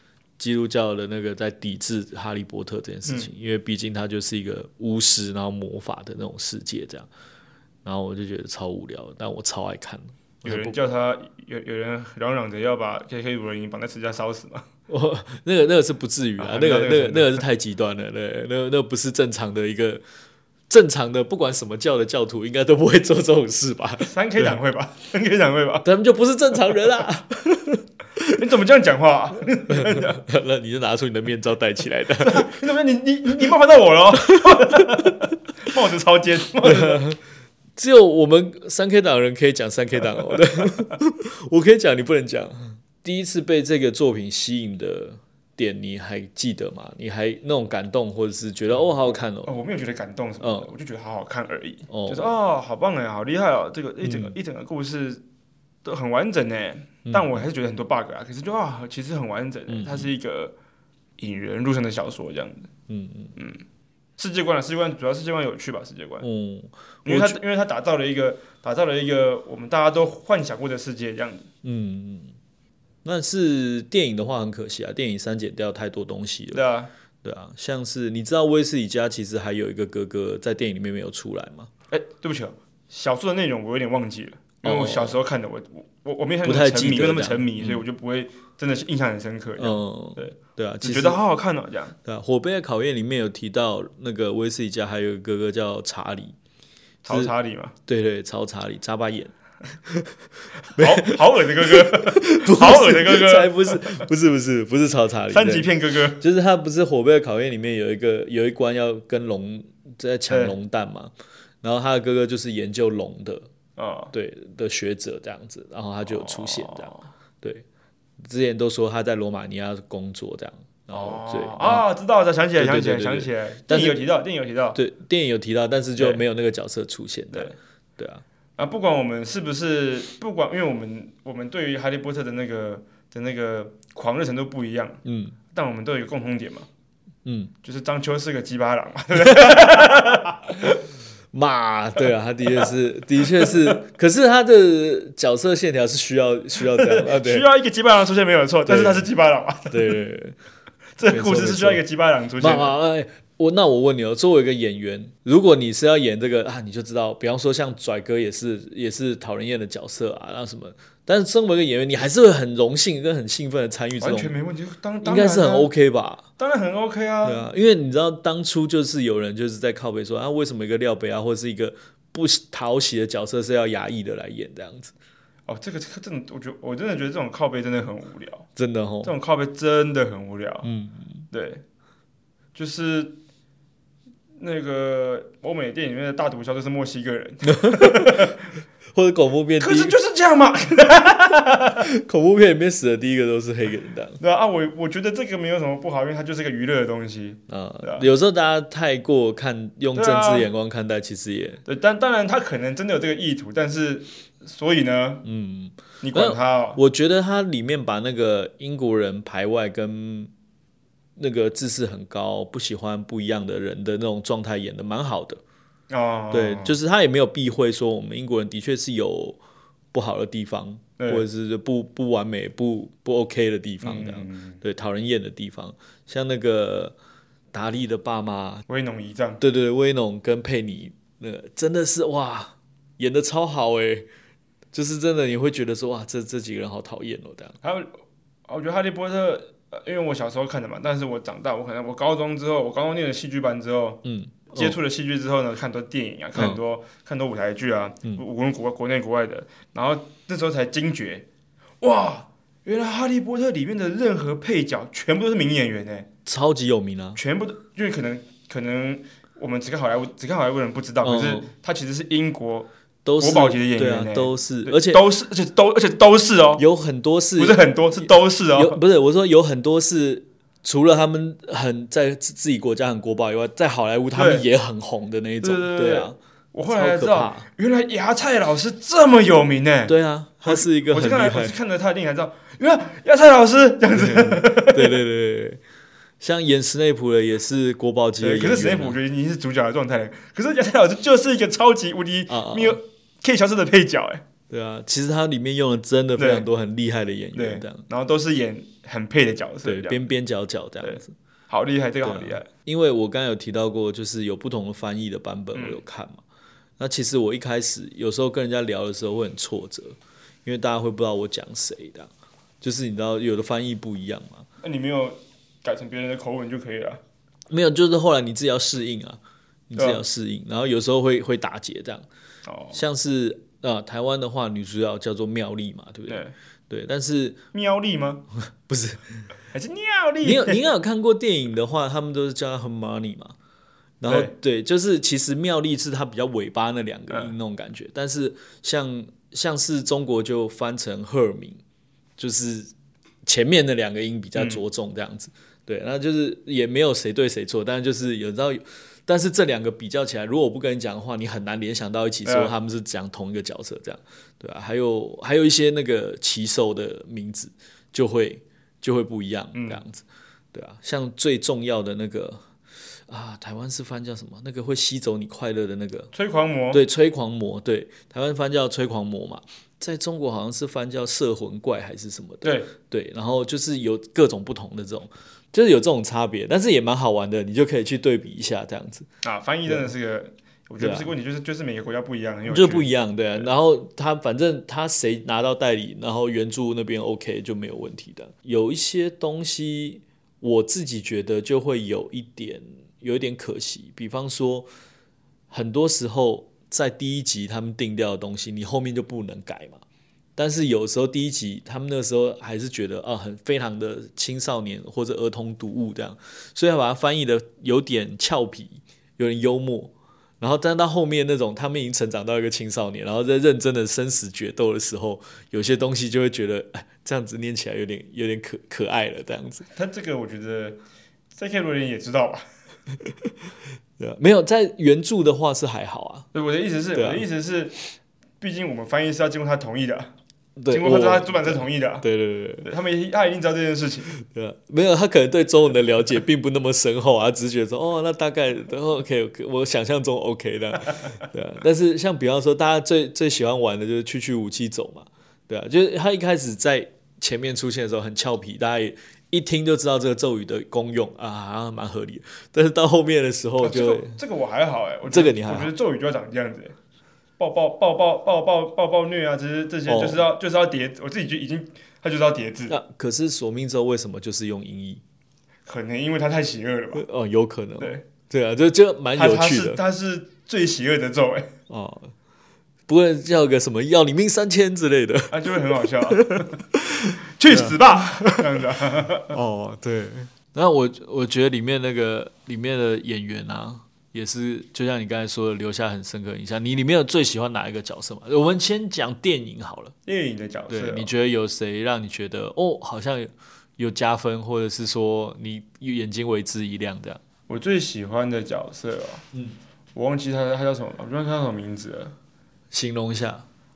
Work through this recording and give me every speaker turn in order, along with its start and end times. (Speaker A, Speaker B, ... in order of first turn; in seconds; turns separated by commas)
Speaker A: 0.4-7.1, Speaker A: 7.8-10.7, Speaker B: 10.4-14.7, Speaker A: 14.9-20.0, Speaker B: 16.4-17.4, Speaker A: 20.7-24.6, Speaker B: 24.0-25.9, Speaker A: 25.8-28.4, Speaker B: 28.3-30.2, Speaker A: 29.7-32.5, Speaker B: 32.2-37.0, Speaker A: 34.3-35.1, Speaker A: 36.6-37.2, Speaker A: 37.8-49.5, Speaker B: 40.1-40.9, Speaker B: 48.7-55.2, Speaker A: 50.4-50.7, Speaker A: 51.9-52.3, Speaker A: 54.0-54.3, Speaker B: 55.8-60.5, Speaker A: 57.1-57.4, Speaker A: 59.7-60.1, Speaker B: 61.2-62.7, Speaker A: 62.9-63.3, Speaker B: 64.2-66.2, Speaker A: 66.2-67.4, Speaker B: 67.0-71.5, Speaker A: 71.6-72.3, Speaker A: 73.0-76.6, Speaker B: 76.5-76.9, Speaker A: 77.2-81.7, Speaker B: 81.9-91.9, Speaker A: 84.6-85.2, Speaker A: 86.4-87.8, Speaker A: 89.6-91.2, Speaker A: 92.0-96.3, Speaker B: 97.0-97.7, Speaker A: 97.9-99.3, Speaker A: 99.8-111.1, Speaker B: 100.7-104.0, Speaker B: 105.3-106.2, Speaker B: 110.3-110.5, Speaker A: 111.6-113.5, Speaker B: 113.8-114.1, Speaker A: 114.1-116.9, Speaker B: 116.1-117.0, Speaker A: 118.2-121.8, Speaker B: 120.9-124.8, Speaker A: 122.6-124.0, Speaker A: 124.7-128.2, Speaker B: 128.6-135.0, Speaker A: 135.0-135.3, Speaker B: 135.5-136.7, Speaker A: 137.2-137.5, Speaker B: 137.6-140.5, Speaker A: 139.3-140.8, Speaker A: 141.3-147.5, Speaker B: 143.3-143.8, Speaker B: 146.7-150.0, Speaker A: 148.7-149.1, Speaker A: 149.7-150.4, Speaker B: 151.0-152.7, Speaker A: 151.1-151.8, Speaker A: 152.4-164.3, Speaker B: 164.0-165.7, Speaker A: 165.0-166.2, Speaker B: 166.4-167.5, Speaker A: 167.2-174.9, Speaker B: 175.5-178.5, Speaker A: 178.6-179.1, Speaker B: 179.0-180.7, Speaker A: 180.6-181.2, Speaker B: 181.3-181.6, Speaker B: 182.5-183.2, Speaker B: 184.4-188.4, Speaker A: 187.4-188.3, Speaker A: 188.9-189.9, Speaker B: 189.6-191.8, Speaker A: 191.8-194.2, Speaker B: 194.2-198.1, Speaker A: 197.5-201.6, Speaker B: 199.9-200.5, Speaker B: 201.6-205.2, Speaker A: 205.2-210.3, Speaker B: 206.0-206.8, Speaker A: 211.2-215.4, Speaker B: 215.9-216.7, Speaker A: 216.3-219.4, Speaker A: 219.9-226.9, Speaker B: 221.0-221.2, Speaker B: 223.8-224.6, Speaker A: 227.5-228.6, Speaker B: 228.7-229.4, Speaker A: 229.4-234.1, Speaker A: 234.7-237.6, Speaker B: 237.6-237.9, Speaker B: 238.5-244.0, Speaker A: 244.0-244.8, Speaker B: 244.5-251.2, Speaker B: 251.8-256.1, Speaker A: 256.2-257.2, Speaker B: 257.1-266.6, Speaker A: 261.0-261.5, Speaker A: 263.0-265.0, Speaker A: 266.6-276.1, Speaker B: 267.4-268.8, Speaker B: 274.1-274.4, Speaker B: 275.4-285.0, Speaker A: 276.7-277.5, Speaker A: 279.9-281.6, Speaker A: 283.9-285.6, Speaker A: 286.2-289.0, Speaker B: 288.2-294.2, Speaker A: 292.3-292.8, Speaker A: 294.5-297.8, Speaker B: 296.2-296.5, Speaker B: 297.3-300.0, Speaker A: 299.6-301.1, Speaker B: 300.8-302.5, Speaker A: 302.0-306.2, Speaker B: 305.5-305.8, Speaker A: 306.8-312.1, Speaker A: 312.6-314.4, Speaker B: 314.6-317.0, Speaker A: 317.5-319.2, Speaker A: 319.7-322.1, Speaker B: 319.8-320.0, Speaker B: 322.4-322.8, Speaker A: 322.7-327.4, Speaker B: 326.1-326.3, Speaker B: 327.5-328.2, Speaker A: 328.5-329.2, Speaker B: 329.5-330.6, Speaker A: 330.2-333.3, Speaker A: 334.0-341.6, Speaker B: 334.1-334.3, Speaker A: 342.2-342.7, Speaker A: 343.2-362.4, Speaker B: 344.4-344.6, Speaker B: 352.2-352.5, Speaker B: 359.5-359.8, Speaker A: 363.1-366.1, Speaker B: 366.1-366.8, Speaker A: 366.7-379.1, Speaker B: 372.4-372.7, Speaker B: 379.2-383.5, Speaker A: 380.8-381.1, Speaker A: 382.4-394.7, Speaker A: 395.5-399.8, Speaker A: 400.4-419.6, Speaker B: 419.7-420.8, Speaker B: 421.3-422.4, Speaker A: 423.1-423.3, Speaker A: 424.0-426.3, Speaker B: 426.3-427.8, Speaker A: 426.9-427.2, Speaker B: 428.4-430.1, Speaker A: 430.6-432.7, Speaker B: 430.7-432.0, Speaker B: 432.6-434.1, Speaker A: 434.1-454.2, Speaker B: 453.6-456.8, Speaker A: 455.1-455.7, Speaker B: 457.4-462.8, Speaker A: 459.9-460.2, Speaker A: 462.7-465.0, Speaker B: 465.6-467.0, Speaker A: 466.9-469.8, Speaker B: 469.1-471.5, Speaker A: 471.7-472.1, Speaker A: 472.9-478.4, Speaker B: 475.3-476.6, Speaker B: 477.4-479.3, Speaker A: 479.3-489.9, Speaker B: 490.1-491.1, Speaker A: 490.7-497.2, Speaker B: 497.5-499.2, Speaker B: 499.9-502.1, Speaker A: 502.7-503.4